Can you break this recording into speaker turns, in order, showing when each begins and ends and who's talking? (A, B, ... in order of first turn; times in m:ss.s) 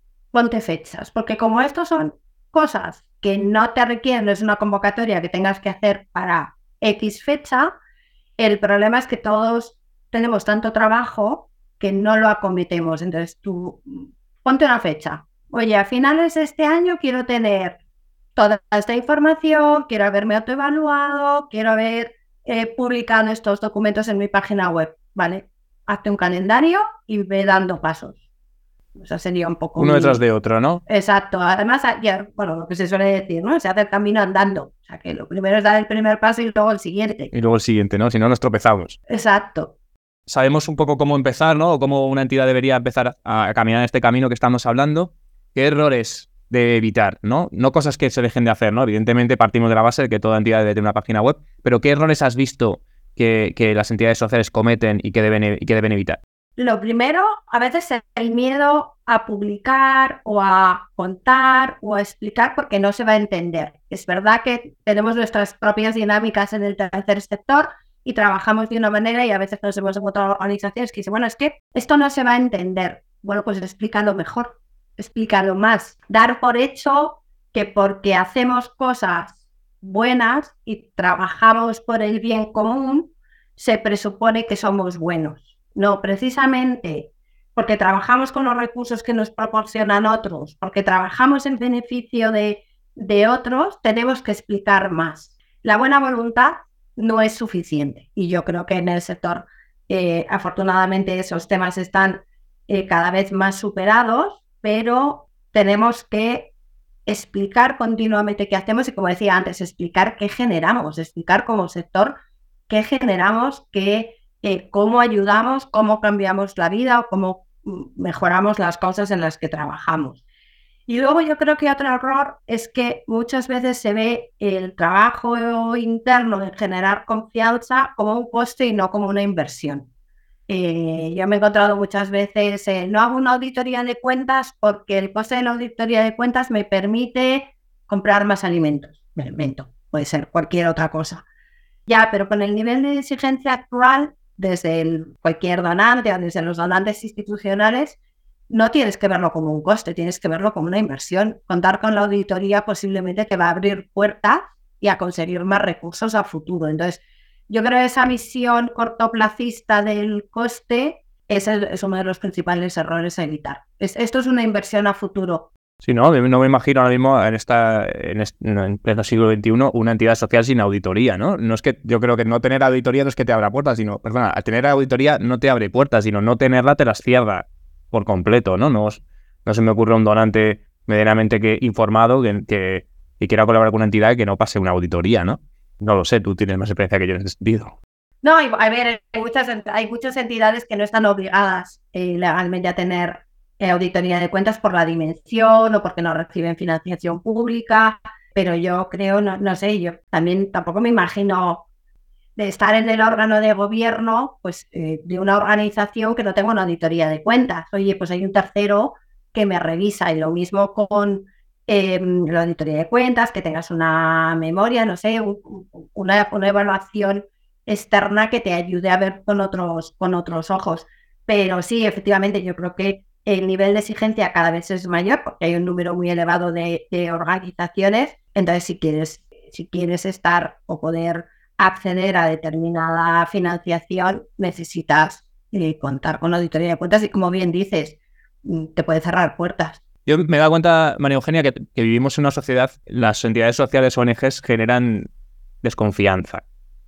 0:00.3-0:07.7 A
0:08.4-0:17.8 A
0:18.4-0:28.2 A
0:29.0-0:30.2 A
0:29.8-0:30.8 B
0:30.9-0:37.3 A
0:37.3-0:39.0 B
0:39.1-0:39.7 A
0:40.3-0:56.2 B
0:56.6-1:46.5 A
1:47.1-1:52.2 A
1:52.7-2:00.2 A
2:00.9-2:09.9 A
2:10.5-2:21.2 A
2:21.9-2:28.0 A
2:28.5-2:45.5 A
2:45.8-3:07.8 B
3:08.2-3:21.7 A
3:22.4-3:59.8 A
4:00.1-4:05.1 B
4:05.6-4:06.4 B